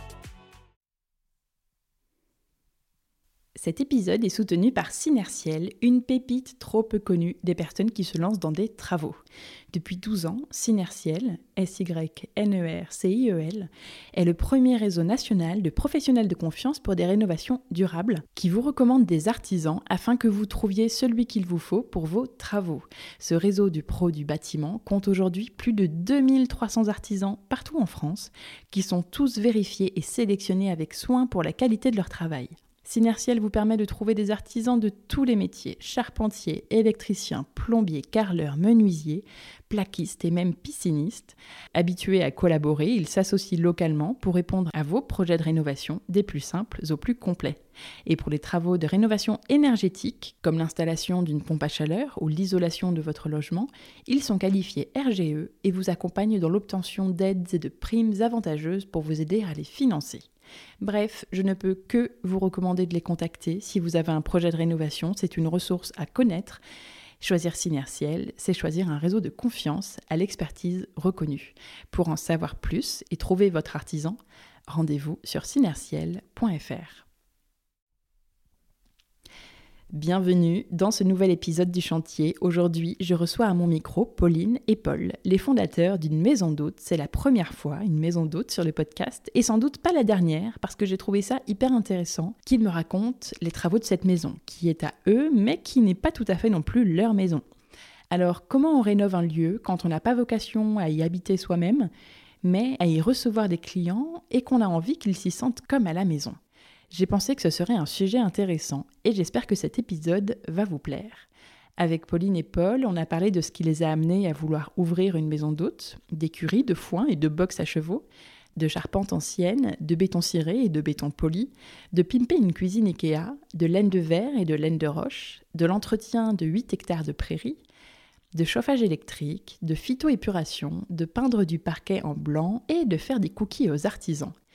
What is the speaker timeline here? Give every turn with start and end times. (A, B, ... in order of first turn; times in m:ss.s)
0:03.6-0:09.2 A
0:09.7-1:00.3 A
1:00.8-1:06.6 A
1:07.2-1:17.0 A
1:19.9-1:37.4 A
1:38.1-1:41.9 A
1:42.4-1:46.4 A
1:46.9-2:07.6 A
2:08.3-2:14.3 A